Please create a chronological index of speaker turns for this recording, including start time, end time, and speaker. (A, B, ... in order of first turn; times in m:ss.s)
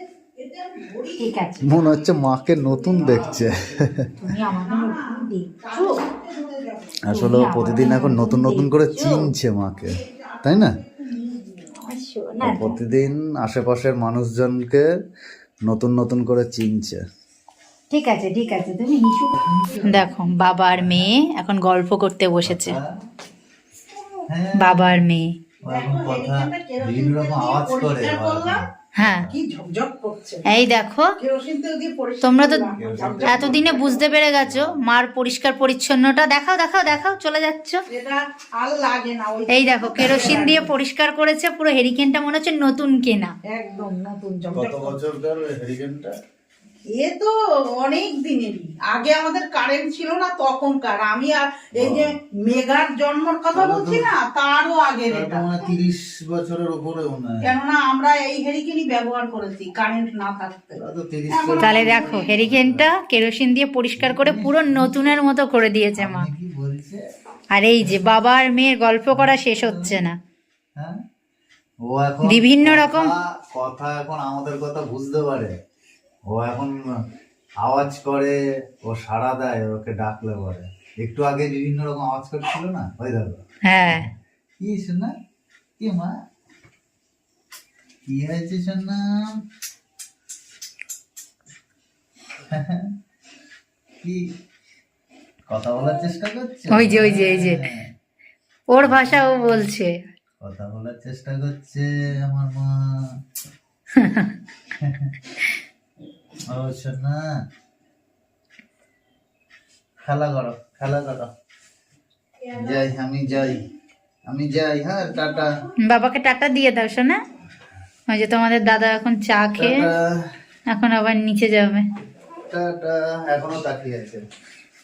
0:00.4-0:02.0 A
0:01.2-0:01.7 B
0:01.6-0:04.1 C
0:04.2-0:06.0 B
0:04.5-0:07.0 A
0:07.1-0:10.8 C
0:07.1-0:09.3 B
0:10.0-0:11.7 A
0:11.8-0:12.8 B
0:12.4-0:14.9 C
0:15.7-0:17.0 C
0:17.9-0:22.8 B
0:19.4-0:20.1 C
0:20.7-0:21.1 C
0:22.4-0:22.9 C
0:24.3-0:25.0 C
0:24.6-0:25.3 B
0:25.6-0:29.3 C
0:25.7-0:28.6 A
0:29.0-0:29.3 B
0:29.3-0:30.4 A
0:30.5-0:31.1 B
0:31.2-0:34.0 A
0:32.2-0:32.6 B
0:32.8-0:34.8 C
0:33.2-0:37.8 B
0:37.9-0:40.7 A
0:39.5-0:43.3 B
0:43.4-0:45.0 A
0:44.5-0:46.1 C
0:46.9-0:55.4 A
0:51.8-0:52.1 C
0:53.5-0:54.1 C
0:55.1-0:57.5 C
0:57.4-1:02.2 A
1:00.8-1:02.9 C
1:01.6-1:06.3 B
1:04.0-1:04.9 C
1:06.0-1:07.0 C
1:07.5-1:10.2 B
1:09.1-1:10.0 C
1:11.9-1:15.5 C
1:12.2-1:13.1 B
1:16.3-1:16.8 C
1:17.6-1:24.1 C
1:23.6-1:24.1 B
1:24.6-1:25.1 C
1:25.8-1:26.1 C
1:28.1-1:29.0 C
1:32.5-1:32.9 C
1:35.5-1:37.8 C
1:36.7-1:37.6 B
1:38.7-1:40.0 B
1:38.8-1:39.7 C
1:40.4-1:42.9 C
1:44.0-1:44.4 B
1:44.7-1:45.1 C
1:46.5-1:47.2 C
1:50.0-1:51.3 C
1:52.5-1:53.6 C
1:54.3-1:55.5 C
1:55.8-1:57.2 B
1:58.1-1:59.9 B
1:59.6-2:00.1 C
2:00.7-2:01.8 B
2:02.4-2:04.2 C